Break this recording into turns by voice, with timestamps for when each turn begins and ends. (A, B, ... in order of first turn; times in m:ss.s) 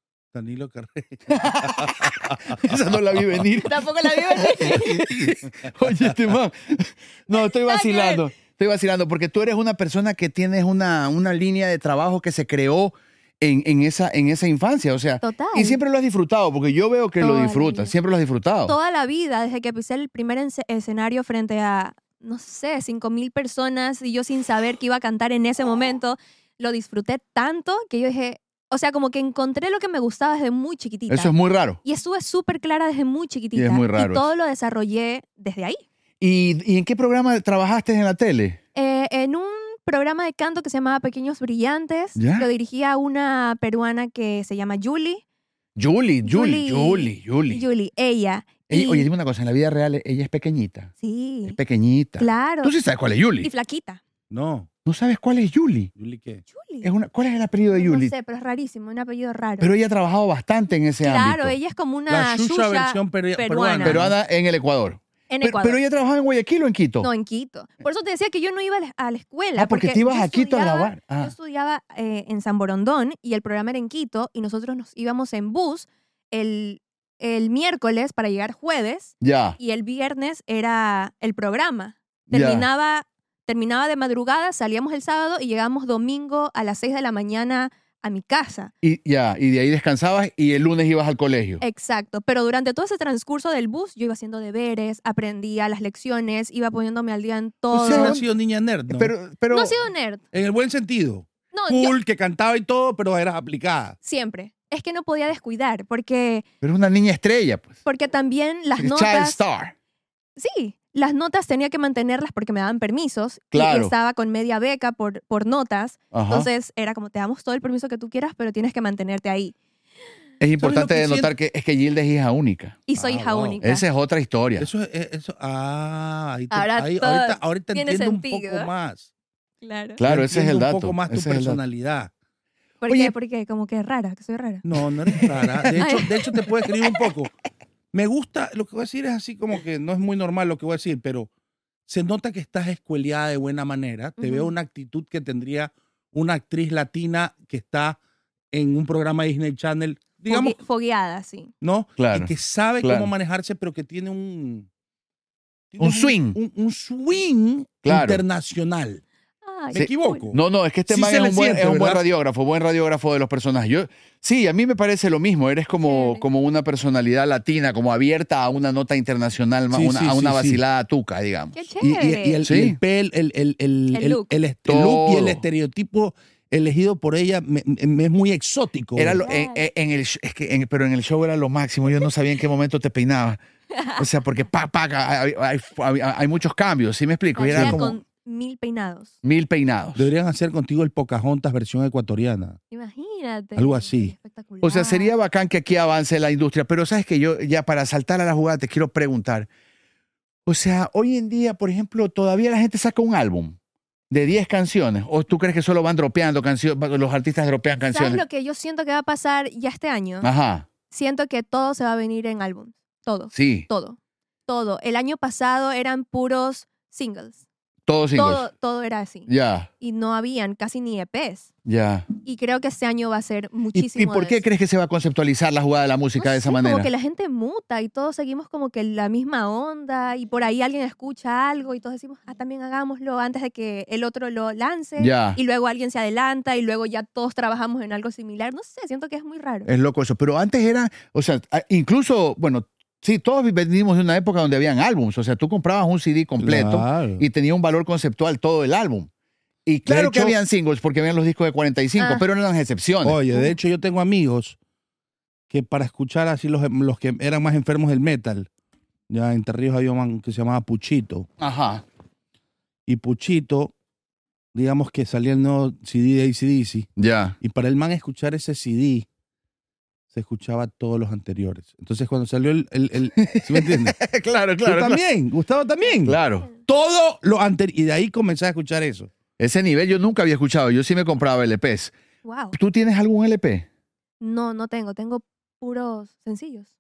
0:00.3-0:02.6 A
0:01.3-0:18.8 B
0:03.6-0:05.0 C
0:04.8-0:05.7 A
0:07.3-0:08.3 C
0:15.2-0:15.8 C
0:17.2-0:17.9 C
0:18.7-0:31.3 C
0:31.1-0:31.8 B
0:31.8-0:35.8 C
0:33.6-0:34.3 B
0:36.2-0:38.6 B
0:38.8-0:45.2 C
0:42.2-0:42.5 B
0:45.8-0:47.6 B
0:46.2-0:49.1 C
0:48.7-0:50.9 B
0:51.0-0:51.6 C
0:51.5-0:53.5 B
0:52.2-0:52.7 C
0:53.4-0:54.0 C
0:54.3-0:54.7 A
0:54.9-0:55.9 B
0:56.0-0:56.4 A
0:56.5-0:56.9 C
0:56.8-0:58.1 B
0:57.7-0:59.7 C
0:59.6-1:01.6 B
1:01.0-1:04.0 C
1:02.1-1:04.1 A
1:03.8-1:07.1 B
1:05.3-1:05.8 C
1:07.0-1:28.7 C
1:09.6-1:11.3 B
1:19.2-1:19.6 B
1:22.3-1:22.7 B
1:28.8-1:31.6 B
1:31.6-1:38.2 C
1:37.7-1:39.1 A
1:37.8-1:38.3 B
1:38.9-1:39.8 B
1:39.5-1:40.2 C
1:40.3-1:44.0 A
1:41.5-1:42.0 C
1:44.0-1:46.4 C
1:46.6-1:47.8 B
1:47.8-1:49.4 C
1:48.8-1:49.7 B
1:50.4-1:59.6 C
1:53.5-1:53.9 B
1:56.1-1:56.5 B
2:00.4-2:02.9 B
2:00.6-2:01.3 A
2:02.9-2:03.8 C
2:03.0-2:03.6 A
2:03.6-2:04.7 B
2:04.6-2:09.1 A
2:06.5-2:08.7 C
2:09.6-2:10.0 C
2:10.0-2:11.6 B
2:10.0-2:12.1 A
2:12.8-2:14.6 C
2:12.9-2:13.1 B
2:14.6-2:17.3 A
2:15.1-2:16.9 B
2:15.8-2:16.2 C
2:17.9-2:21.3 A
2:21.9-2:28.0 A
2:24.2-2:24.5 C
2:28.5-2:30.6 A
2:30.3-2:31.5 C
2:31.6-2:34.7 A
2:32.0-2:33.1 B
2:35.7-2:39.0 A
2:35.8-2:36.4 B
2:37.8-2:38.2 B
2:39.4-2:40.2 C
2:39.7-2:42.0 A
2:39.8-2:52.8 B
2:45.8-2:46.2 C
2:49.7-2:50.6 A
2:51.5-2:52.4 C
2:51.8-2:59.2 A
2:53.9-2:54.4 C
2:54.7-2:55.4 B
2:59.0-3:03.4 B
2:59.2-2:59.6 C
3:03.7-3:04.1 C
3:04.0-3:07.8 B
3:07.4-3:09.1 C
3:07.5-3:08.0 A
3:09.2-3:10.1 B
3:10.0-3:12.6 A
3:12.7-3:15.1 C
3:13.6-3:14.1 A
3:14.6-3:19.5 B
3:20.5-3:23.6 B
3:24.1-3:28.2 B
3:27.9-3:30.3 C
3:30.2-3:30.7 B
3:30.9-3:37.4 C
3:33.3-3:33.7 B
3:37.9-3:38.5 B
3:38.1-3:39.3 C
3:39.3-3:39.7 B
3:39.8-3:41.5 C
3:41.6-3:42.1 B
3:42.2-3:44.4 C
3:43.7-3:46.9 B
3:46.2-3:59.7 C
3:55.0-3:55.4 B
3:59.7-4:09.1 B
4:06.4-4:07.2 A
4:09.7-4:13.2 B
4:09.9-4:10.4 A
4:12.0-4:12.2 C
4:13.0-4:14.6 A
4:15.5-4:18.5 A
4:19.1-4:21.3 A
4:21.4-4:21.8 B
4:22.9-4:23.7 A
4:24.5-4:26.9 A
4:27.0-4:27.4 B
4:27.4-4:29.1 A
4:30.1-4:34.0 A
4:33.2-4:35.0 B
4:34.6-4:39.1 A
4:36.0-4:36.5 B
4:39.4-4:41.9 B
4:42.2-4:42.6 C
4:42.5-4:43.7 B
4:44.2-4:46.7 C